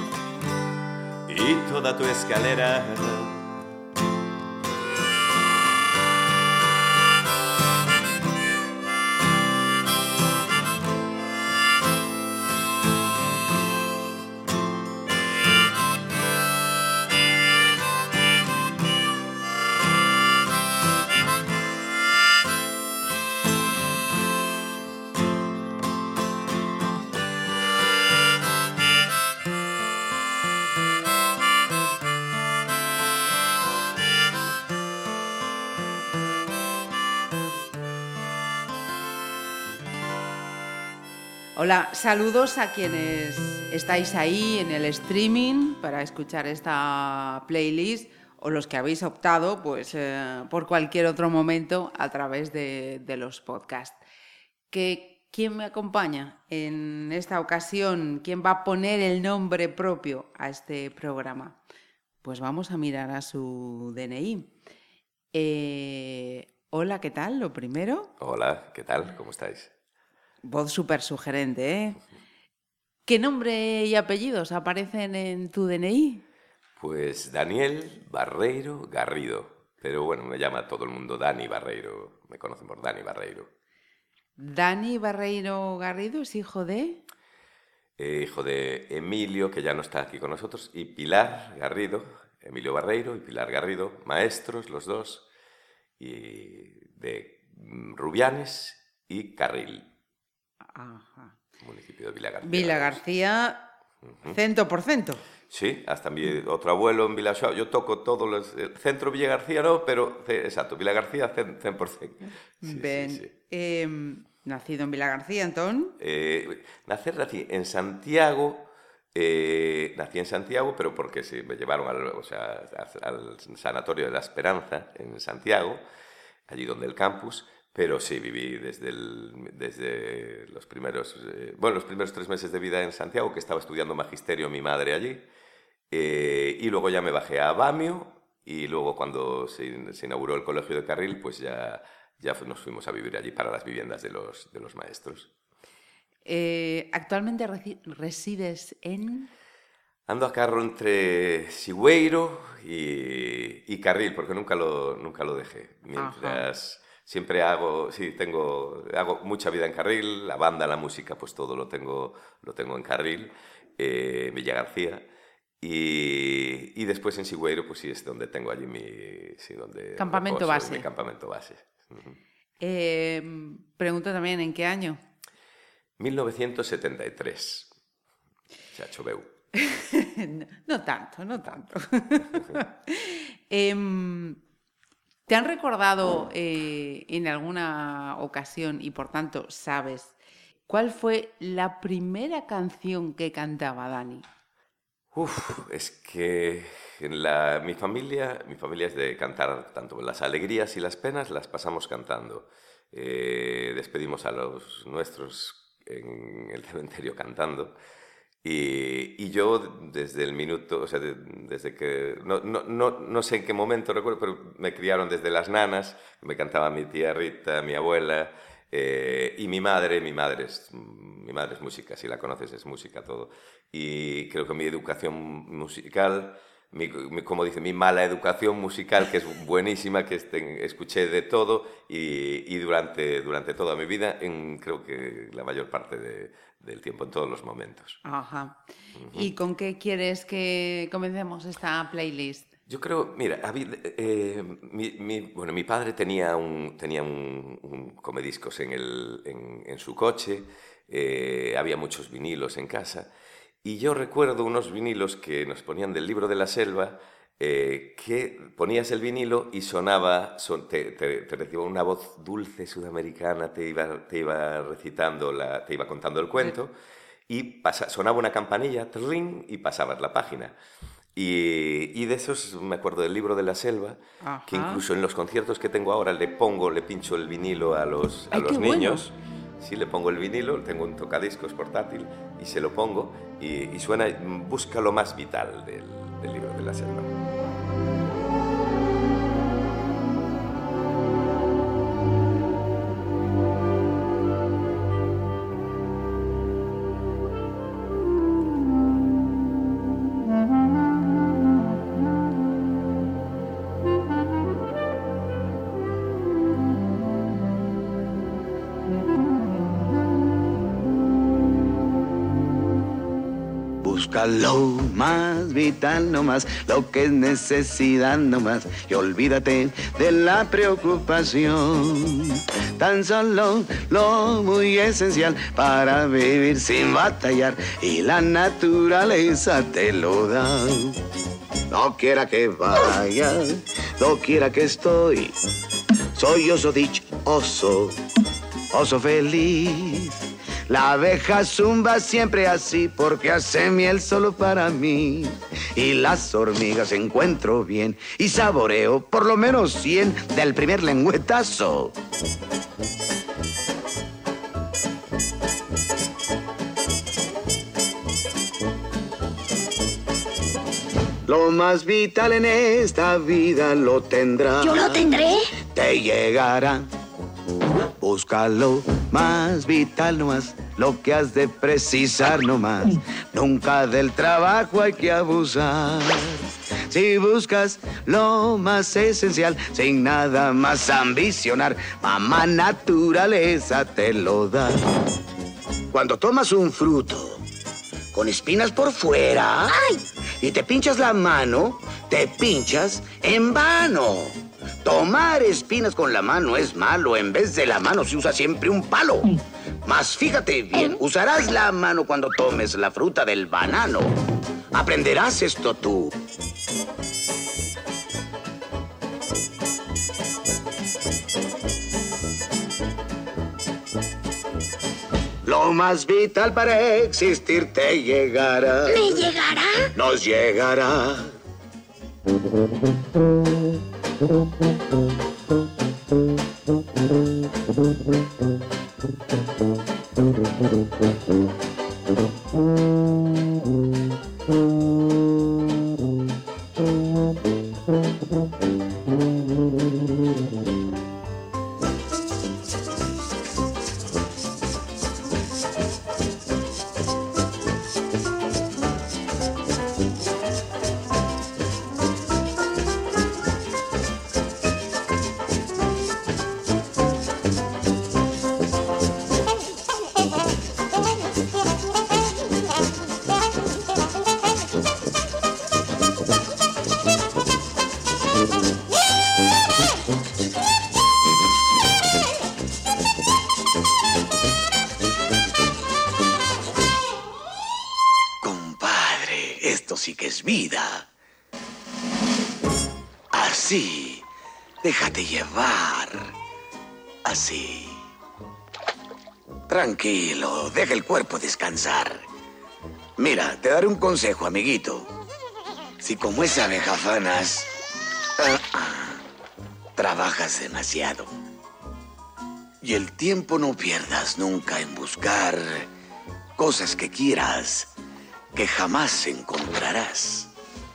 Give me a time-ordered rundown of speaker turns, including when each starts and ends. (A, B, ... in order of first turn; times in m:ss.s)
0:01.3-0:03.6 A
0:41.6-0:54.0 B
0:54.7-1:01.6 B
1:02.2-1:04.5 B
1:05.3-1:08.1 B
1:08.2-1:09.7 A
1:10.4-1:12.0 B
1:13.0-1:16.2 B
1:16.8-1:23.5 A
1:24.4-1:27.0 B
1:28.0-1:35.2 A
1:36.0-1:39.8 A
1:40.7-1:41.3 B
1:41.6-1:43.0 A
1:42.4-1:43.7 B
1:44.2-1:45.2 B
1:45.5-1:53.3 A
1:52.6-1:56.0 B
1:56.0-2:05.8 A
2:06.5-2:15.2 A
2:15.9-2:25.3 A
2:26.2-2:29.3 B
2:30.1-2:45.0 A
2:36.0-2:36.4 B
2:45.6-2:52.2 A
2:50.0-2:50.8 B
2:52.6-2:55.0 B
2:56.0-2:57.7 A
2:58.7-2:59.3 A
2:59.5-3:04.4 B
3:05.3-3:10.2 B
3:10.7-3:14.2 B
3:15.1-3:27.7 A
3:28.4-3:58.0 A
3:58.0-3:58.6 B
3:59.0-3:59.3 A
3:59.1-4:02.5 B
4:02.7-4:13.1 A
4:13.6-4:26.7 A
4:27.3-4:30.5 A
4:31.1-4:47.1 A
4:34.2-4:34.8 B
4:38.3-4:39.0 B
5:13.8-5:31.0 C
5:31.7-5:35.3 C
5:36.1-5:38.0 C
5:38.7-5:51.9 C
6:01.2-6:06.9 C
6:04.6-6:05.5 D
6:08.0-6:24.9 C
6:25.9-6:27.4 C
6:28.1-6:29.8 C
6:29.7-6:30.0 D
6:30.4-6:44.1 C
6:44.7-6:46.1 C
6:55.4-6:59.1 C
6:58.9-6:59.9 D
6:59.9-7:01.2 C
7:58.4-8:01.0 C
8:03.3-8:04.2 C
8:04.8-8:06.3 C
8:07.2-8:08.0 C
8:09.7-8:12.2 C
8:13.2-8:15.1 C
8:16.0-8:17.7 C
8:18.4-8:19.2 C
8:20.0-8:21.3 C
8:22.8-8:25.9 C
8:26.6-8:27.9 C
8:28.5-8:30.5 C